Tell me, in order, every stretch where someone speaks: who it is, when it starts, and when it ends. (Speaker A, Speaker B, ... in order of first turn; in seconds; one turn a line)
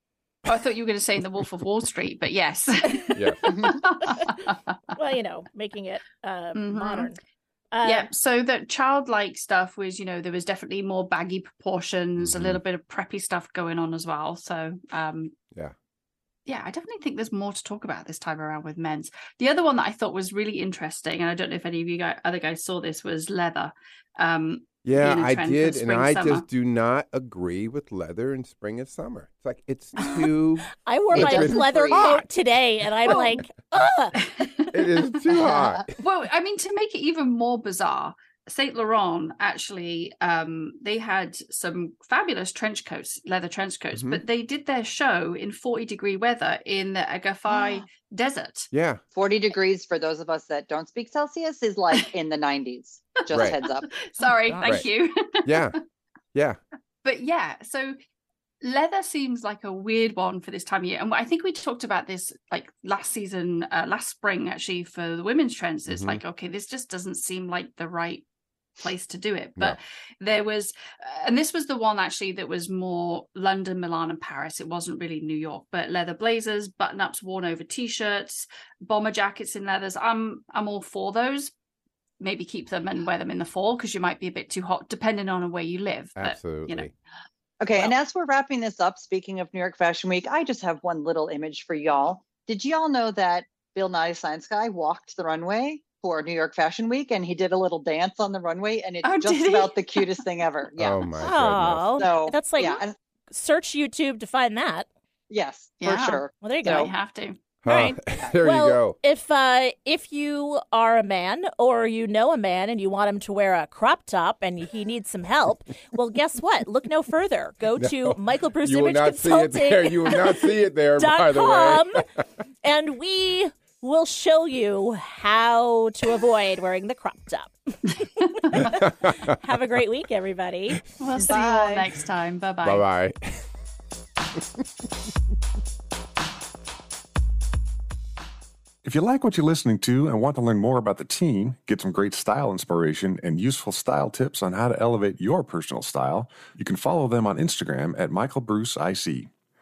Speaker A: 0.4-4.8
Speaker B: 3.1-3.5
Speaker C: 4.0-4.3
Speaker C: 4.9-7.2
Speaker A: 6.5-7.1
Speaker C: 7.7-8.1
Speaker A: 7.8-15.3
Speaker B: 12.2-12.6
Speaker A: 16.5-26.4
Speaker B: 24.8-32.3
Speaker C: 30.8-34.2
Speaker D: 31.1-32.1
Speaker A: 33.0-33.3
Speaker A: 34.1-35.1
Speaker B: 34.7-35.9
Speaker D: 35.3-35.8
Speaker A: 36.0-48.7
Speaker B: 43.9-44.2
Speaker D: 47.5-47.8
Speaker B: 48.7-49.0
Speaker D: 49.1-53.9
Speaker B: 53.3-53.6
Speaker A: 53.3-55.8
Speaker C: 54.2-54.8
Speaker B: 54.6-54.9
Speaker B: 55.4-55.8
Speaker B: 56.3-56.6
Speaker A: 57.0-57.9
Speaker A: 58.6-68.2
Speaker B: 65.9-66.2
Speaker A: 68.8-81.5
Speaker A: 82.2-86.9
Speaker B: 86.2-86.9
Speaker D: 87.6-101.1
Speaker A: 99.0-100.2
Speaker B: 100.8-102.0
Speaker C: 101.2-104.9
Speaker D: 101.9-102.9
Speaker D: 105.3-106.9
Speaker A: 105.8-108.0
Speaker C: 106.4-106.9
Speaker B: 107.6-109.0
Speaker C: 108.4-122.0
Speaker B: 117.8-122.0
Speaker C: 122.6-130.8
Speaker A: 128.2-128.6
Speaker B: 128.6-129.4
Speaker A: 131.0-132.8
Speaker D: 131.2-131.9
Speaker B: 132.6-133.4
Speaker E: 138.8-149.3